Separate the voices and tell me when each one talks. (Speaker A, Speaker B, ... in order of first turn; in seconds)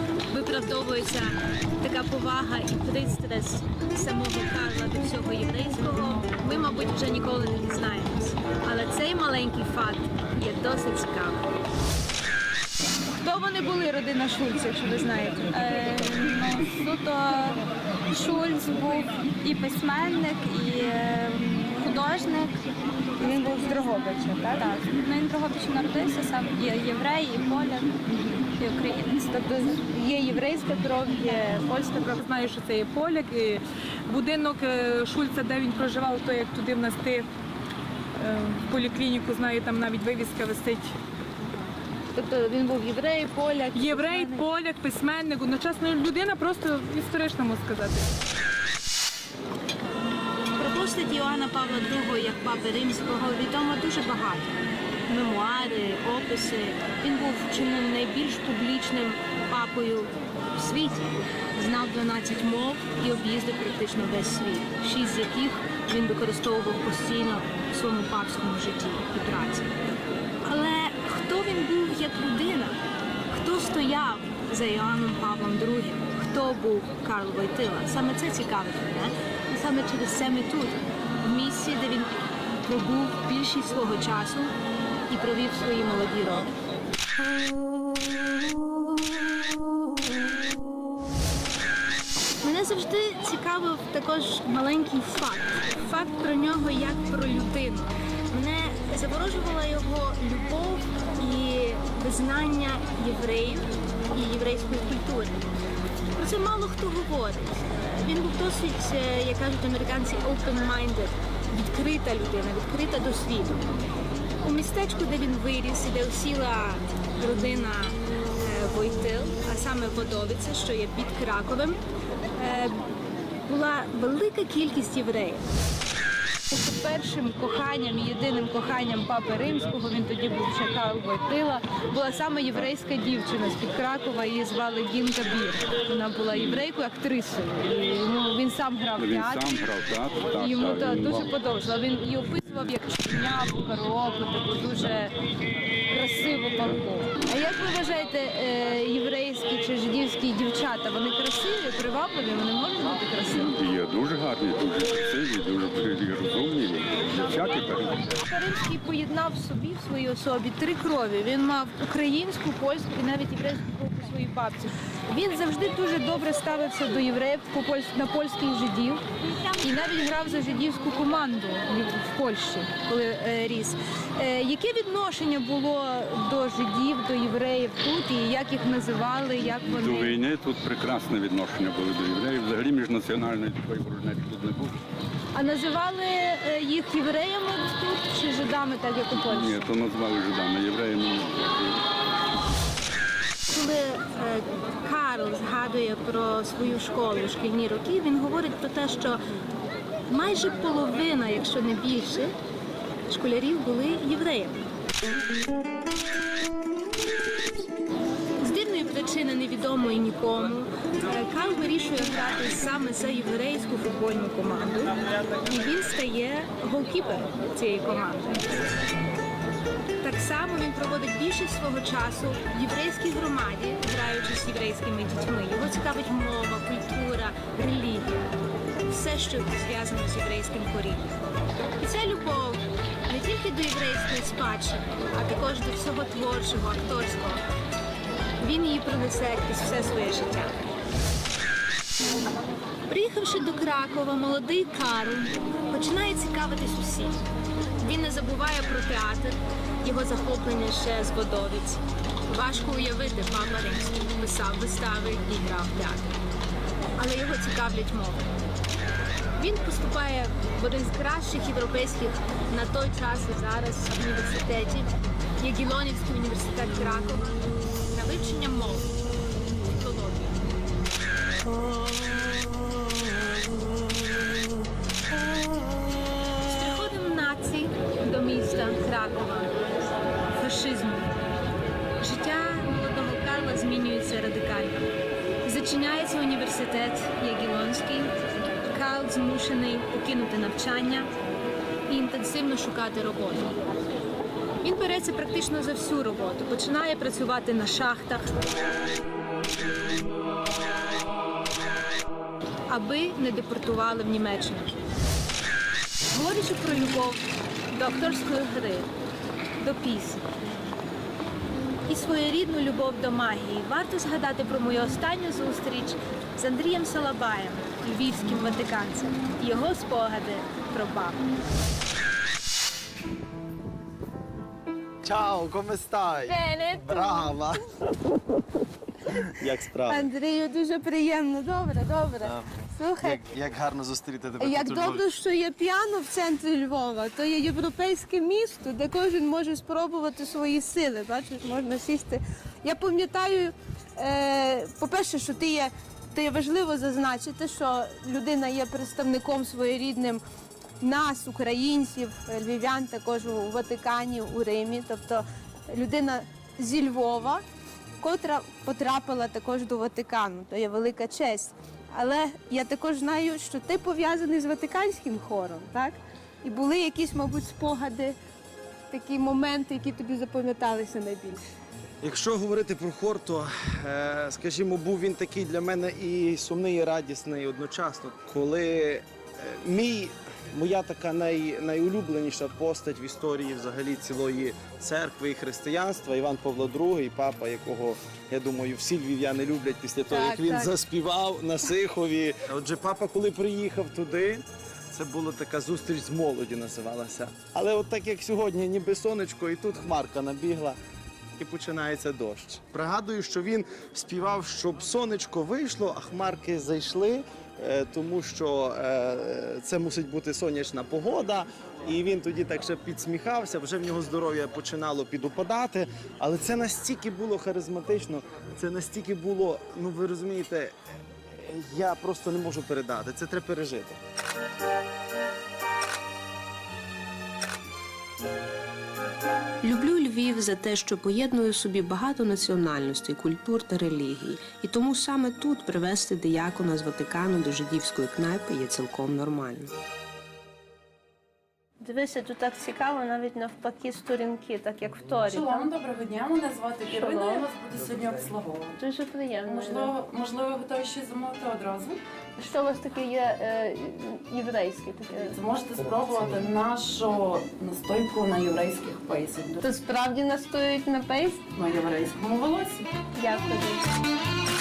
Speaker A: 0.3-11.5, 13.1-15.9, 16.8-17.1, 42.1-44.5, 50.5-69.9, 70.4-84.5, 85.1-86.5, 92.4-105.5, 106.2-113.7, 114.4-121.8, 122.4-122.8, 123.5-125.5, 126.5-139.7, 140.3-145.1, 145.9-153.6, 158.2-169.0, 169.6-180.2, 185.3-189.6, 193.5-199.2, 200.1-202.3, 203.1-204.7, 208.4-218.5, 220.0-228.3, 228.8-231.2, 231.8-237.4, 238.4-240.6, 242.9-247.3, 247.8-256.2, 257.0-258.3, 259.4-270.4, 276.4-279.7, 280.3-281.1, 282.0-284.9, 285.4-288.1, 288.7-291.1, 291.9-293.6, 294.6-298.3, 302.7-304.8, 306.1-308.9, 309.6-310.2, 311.9-321.2
Speaker B: 16.1-16.7, 18.2-22.5, 23.2-23.7, 24.5-27.9, 28.6-29.8
Speaker C: 32.1-37.3, 38.2-40.9, 43.7-48.1
Speaker D: 136.3-136.6, 139.0-141.4, 153.3-158.1, 179.5-184.8, 189.1-191.8
Speaker E: 325.0-327.6, 329.3-330.1, 332.2-335.1, 372.0-400.8, 401.4-420.7, 421.3-424.0, 447.9-448.3, 455.8-456.5
Speaker F: 326.2-327.6, 329.9-333.2, 334.4-350.2, 350.8-357.4, 358.0-368.2, 368.9-371.4, 390.1-390.7, 441.8-445.7, 446.9-447.5, 448.8-449.9, 452.4-455.4, 459.6-461.4, 463.1-463.9
Speaker G: 429.6-439.7
Speaker H: 445.1-448.8, 449.5-452.0, 455.1-459.6, 461.5-462.9